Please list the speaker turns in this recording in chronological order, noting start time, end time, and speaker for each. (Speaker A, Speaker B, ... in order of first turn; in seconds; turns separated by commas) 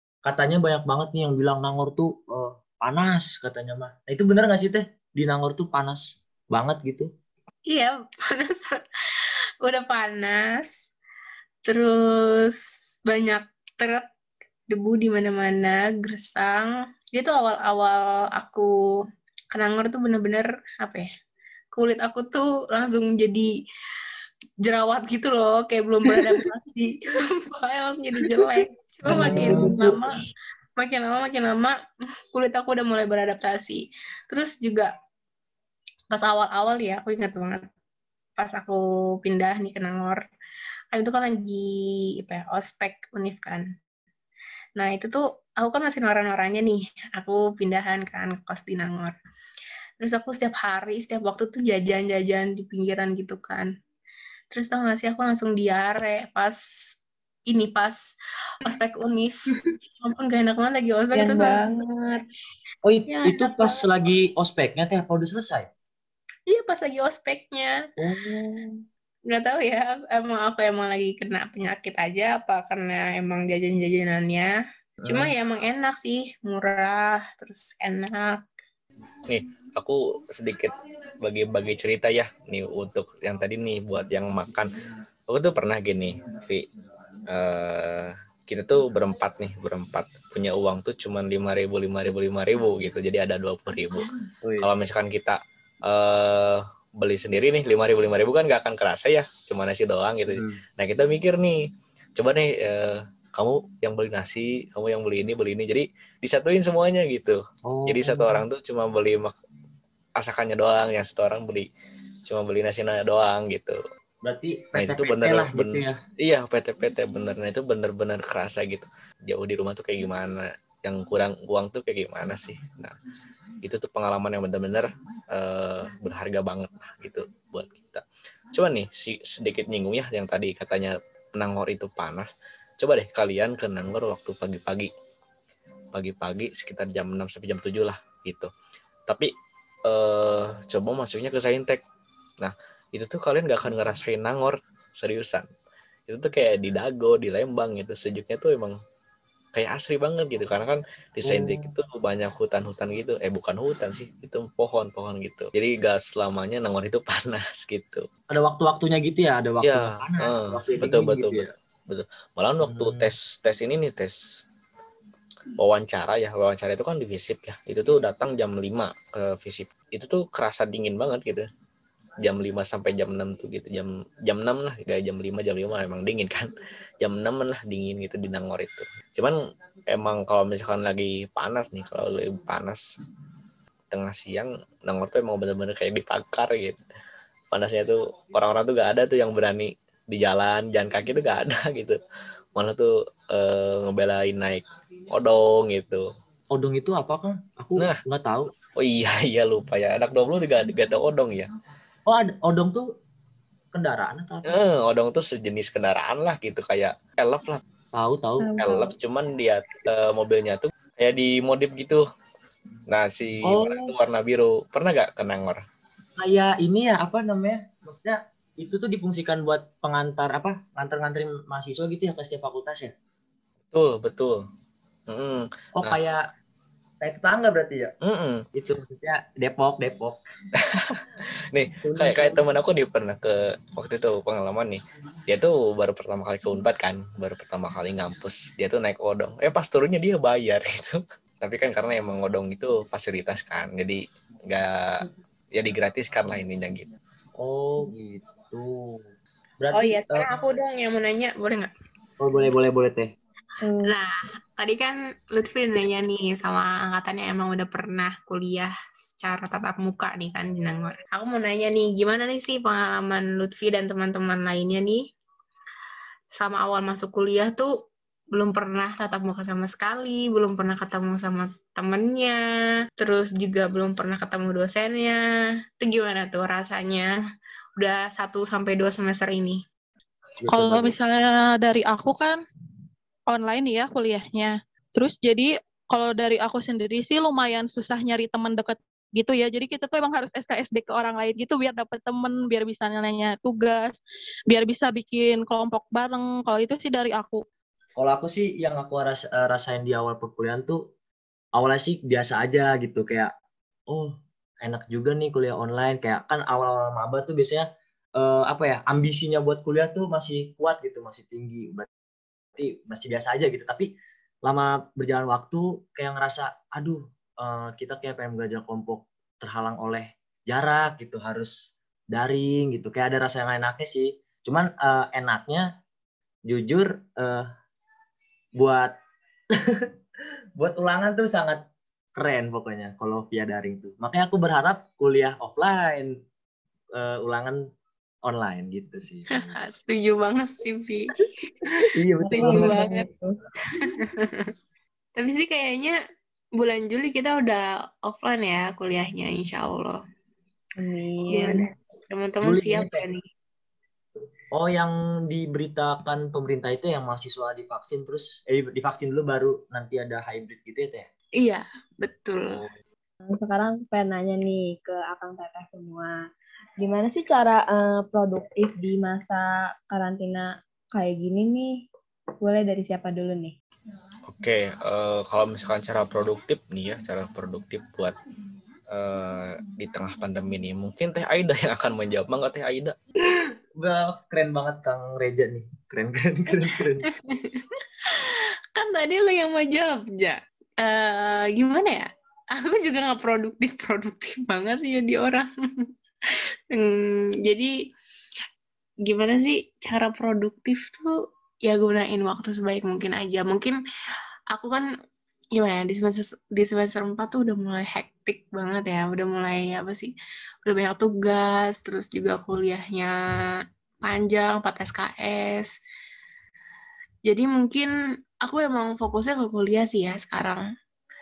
Speaker A: 0.2-7.1, Speaker B: 7.7-8.8, Speaker B: 9.6-10.7, Speaker B: 11.6-14.0, Speaker B: 14.7-18.7, Speaker B: 19.5-21.1, Speaker B: 21.7-23.5, Speaker B: 24.6-30.1, Speaker A: 29.1-30.0, Speaker C: 29.1-29.8, Speaker B: 30.8-31.7, Speaker B: 32.3-34.9, Speaker B: 36.1-37.6, Speaker B: 38.4-40.2, Speaker B: 40.9-43.7, Speaker B: 44.8-49.1, Speaker B: 50.0-53.7, Speaker B: 54.5-56.6, Speaker B: 57.5-58.0, Speaker B: 58.6-59.4, Speaker B: 60.0-61.6, Speaker C: 61.2-62.2, Speaker A: 62.8-65.7, Speaker B: 63.1-63.8, Speaker B: 66.5-67.7, Speaker A: 68.0-68.4, Speaker B: 69.3-74.5, Speaker A: 75.0-75.3, Speaker B: 75.0-78.5, Speaker D: 79.3-84.7, Speaker D: 85.3-86.6, Speaker D: 87.3-94.1, Speaker A: 94.4-94.7, Speaker D: 94.6-101.7, Speaker A: 100.3-100.6, Speaker D: 102.2-109.3, Speaker A: 107.6-108.4, Speaker D: 110.2-111.7, Speaker D: 112.3-113.8, Speaker A: 114.2-116.0, Speaker D: 114.7-122.9, Speaker D: 123.6-128.0, Speaker D: 128.5-134.9, Speaker D: 135.9-138.5, Speaker D: 139.8-141.8, Speaker D: 142.4-145.4, Speaker D: 146.1-148.8, Speaker D: 149.5-158.0, Speaker A: 151.2-151.7, Speaker A: 158.3-161.5, Speaker D: 159.6-164.2, Speaker A: 162.6-163.1, Speaker D: 165.6-171.5, Speaker D: 172.2-182.8, Speaker D: 183.9-186.8, Speaker D: 187.5-192.0, Speaker D: 192.6-196.0, Speaker A: 196.5-198.5, Speaker D: 198.8-201.5, Speaker A: 202.1-202.9, Speaker A: 203.7-204.6, Speaker D: 204.5-207.6, Speaker A: 207.9-208.6, Speaker C: 208.4-208.9, Speaker D: 208.6-212.0, Speaker D: 212.9-215.6, Speaker A: 213.4-213.9, Speaker A: 216.2-222.9, Speaker D: 223.7-224.4, Speaker D: 225.1-226.0, Speaker A: 225.8-226.2, Speaker A: 227.0-227.9, Speaker D: 228.0-228.4, Speaker A: 228.5-230.2, Speaker D: 230.6-245.0, Speaker A: 231.8-232.4, Speaker D: 245.5-246.9, Speaker A: 247.4-249.0, Speaker A: 249.6-250.3, Speaker B: 249.7-251.7, Speaker A: 252.2-253.1, Speaker C: 253.6-253.9, Speaker B: 253.8-265.0, Speaker B: 266.3-267.7, Speaker B: 268.3-272.4, Speaker B: 273.0-275.2, Speaker B: 275.8-277.1, Speaker B: 277.8-279.6, Speaker A: 280.4-280.9, Speaker E: 280.5-282.4, Speaker E: 283.3-293.9, Speaker E: 294.5-297.4, Speaker A: 297.9-300.8, Speaker A: 301.5-303.3, Speaker A: 303.9-311.9, Speaker A: 312.6-313.9, Speaker A: 314.4-325.7, Speaker A: 326.4-327.5, Speaker A: 328.6-328.9, Speaker A: 329.5-329.9, Speaker A: 330.6-331.6, Speaker A: 332.1-336.2, Speaker A: 336.9-337.6, Speaker A: 338.2-339.6, Speaker B: 339.4-341.3, Speaker A: 341.6-342.9, Speaker C: 342.2-343.3, Speaker B: 342.3-343.1, Speaker B: 343.7-344.4, Speaker B: 345.1-346.0, Speaker B: 346.6-350.0, Speaker C: 350.8-351.7, Speaker B: 351.3-353.2, Speaker A: 352.4-353.0, Speaker A: 354.5-361.1, Speaker B: 361.4-362.6, Speaker C: 363.3-366.1, Speaker C: 366.8-371.8, Speaker C: 372.4-373.5, Speaker D: 374.3-378.1, Speaker D: 378.9-382.9, Speaker A: 383.4-387.1, Speaker B: 387.2-395.9, Speaker B: 397.4-397.7, Speaker B: 399.0-403.8, Speaker B: 404.5-404.9, Speaker B: 405.5-410.1, Speaker B: 410.6-413.1, Speaker B: 414.0-415.7, Speaker B: 417.2-417.9, Speaker B: 418.4-420.6